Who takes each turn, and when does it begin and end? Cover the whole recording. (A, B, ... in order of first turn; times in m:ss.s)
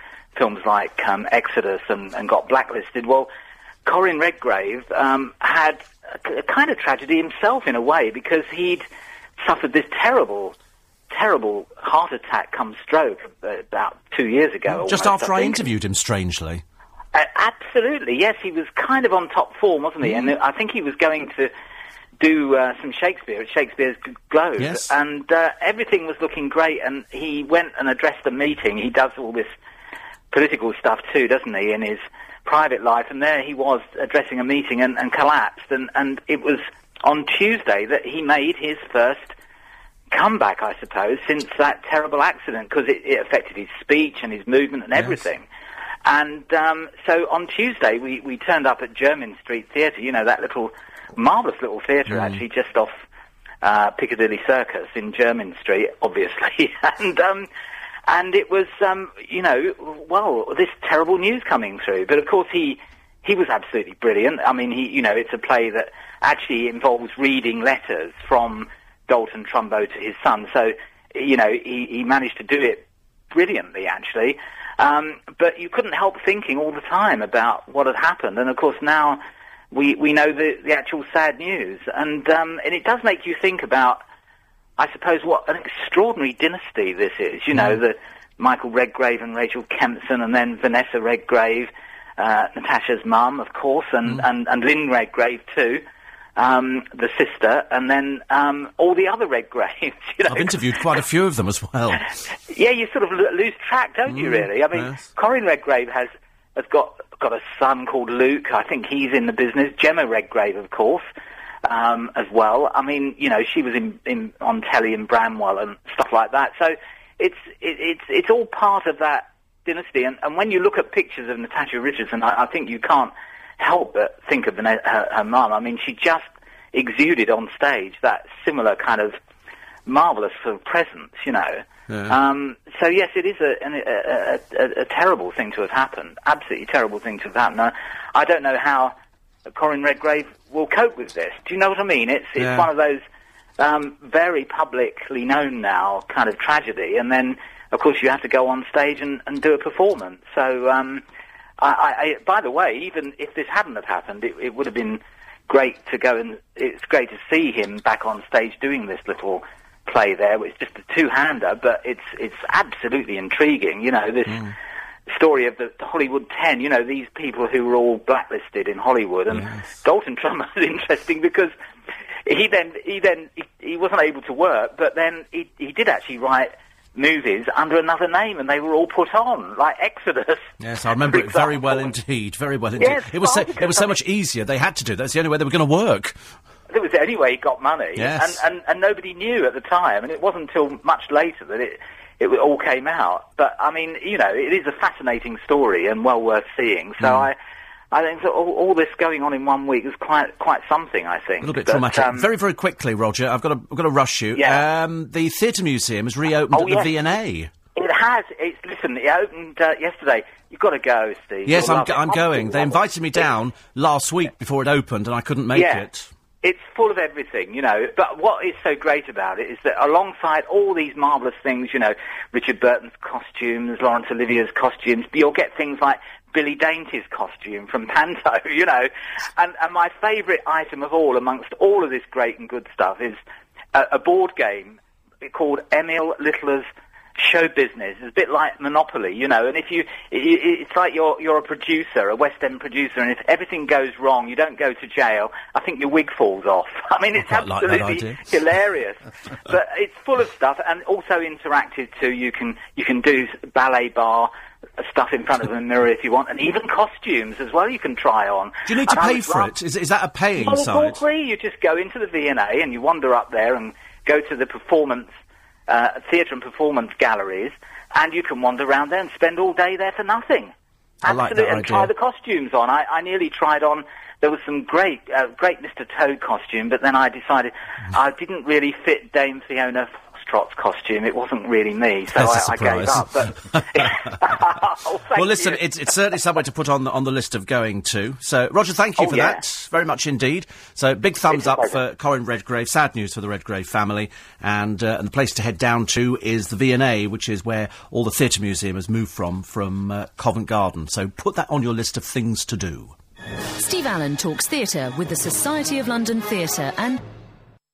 0:00.4-0:03.3 A
0:03.8-0:08.9 A
0:09.4-0:10.6 A
0:11.1-0:15.6 A
0:14.7-0:16.6 B
0:17.1-0:21.5 A
0:20.0-0:20.3 B
0:22.2-0:29.5 A
0:24.6-0:24.9 B
0:30.3-0:39.3 A
0:40.1-0:45.4 A
0:45.0-0:45.2 B
0:46.1-0:52.9 A
0:52.1-0:52.4 B
0:53.6-0:57.5 A
0:58.1-1:24.0 A
1:24.8-1:35.8 A
1:27.5-1:27.8 B
1:36.4-1:40.7 A
1:40.3-1:42.1 B
1:42.5-1:51.1 A
1:44.1-1:45.1 B
1:51.7-2:09.2 A
2:09.9-2:19.0 A
2:11.9-2:12.2 B
2:19.5-2:23.0 A
2:22.4-2:22.7 B
2:23.6-2:31.0 A
2:31.6-2:44.5 A
2:44.3-2:44.5 B
2:45.1-2:51.5 A
2:49.3-2:49.7 B
2:52.3-3:00.5 A
3:00.6-3:06.2 B
3:01.0-3:01.9 A
3:02.8-3:04.0 A
3:06.7-3:17.4 A
3:08.0-3:08.4 B
3:17.0-3:17.3 B
3:17.9-3:22.3 A
3:21.4-3:27.5 B
3:24.4-3:24.6 A
3:26.5-3:26.9 A
3:27.8-3:32.8 A
3:31.4-3:36.1 B
3:35.5-3:35.9 A
3:36.4-3:53.2 A
3:53.7-3:56.7 A
3:57.2-4:19.5 A
4:07.2-4:08.3 B
4:18.7-4:21.0 B
4:20.4-4:25.1 A
4:25.7-4:45.6 A
4:31.0-4:31.9 B
4:42.1-4:44.4 B
4:45.2-5:02.9 B
4:49.0-4:49.4 A
4:51.3-4:51.8 A
5:03.6-5:07.0 C